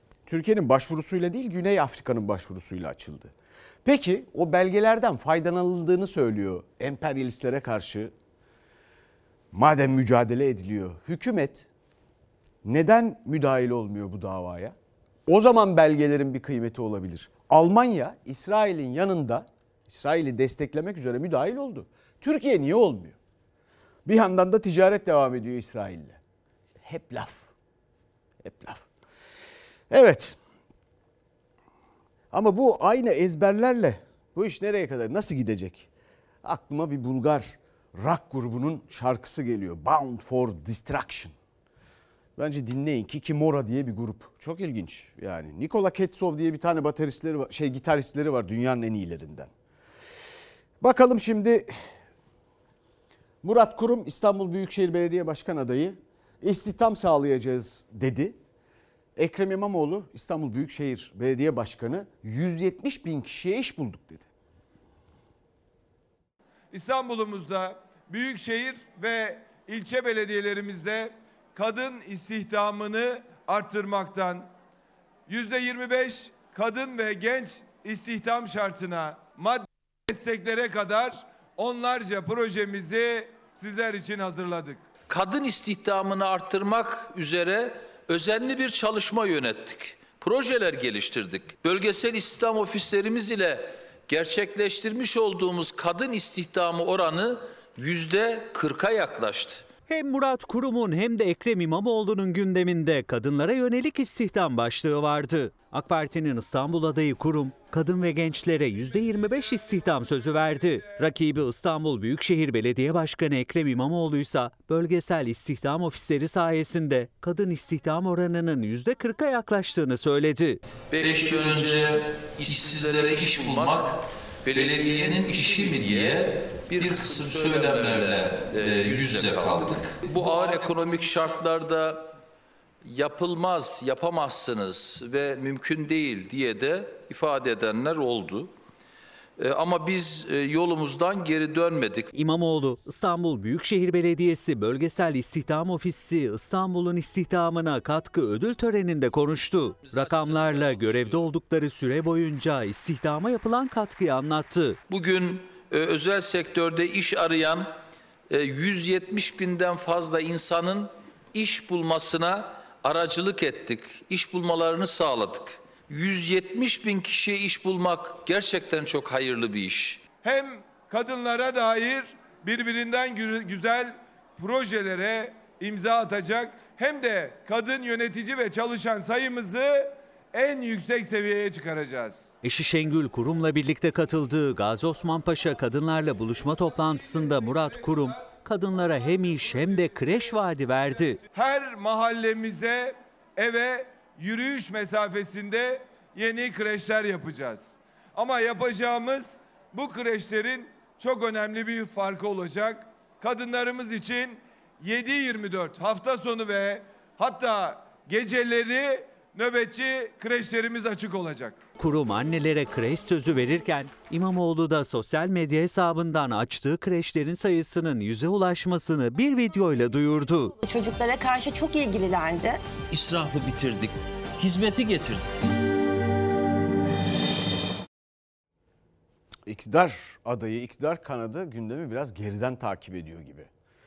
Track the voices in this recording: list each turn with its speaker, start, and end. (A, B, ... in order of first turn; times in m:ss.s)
0:00.2-0:08.1 A
0:09.5-0:11.7 A
0:12.6-0:14.8 A
0:15.3-0:23.2 A
0:24.1-0:26.2 A
0:26.8-0:27.5 A
0:28.4-0:28.8 A
0:29.9-0:30.4 A
0:32.3-0:35.9 A
0:36.4-0:41.4 A
0:42.4-0:49.5 A
0:50.8-0:51.7 A
0:53.4-0:58.4 A
0:59.2-1:04.3 A
1:06.7-1:14.5 B
1:15.3-1:24.9 B
1:25.1-1:39.7 C
1:39.9-2:00.6 D
1:49.3-1:50.2 B
2:00.9-2:12.1 C
2:12.8-2:18.5 C
2:19.4-2:22.1 C
2:22.1-2:34.8 D
2:34.9-2:37.7 C
2:38.3-2:50.0 C
2:50.2-3:02.3 B
3:02.4-3:11.2 D
3:07.2-3:07.8 B
3:11.3-3:31.6 B
3:31.8-3:40.5 D
3:40.6-3:42.6 E
3:42.9-3:45.3 C
3:49.5-3:53.5 A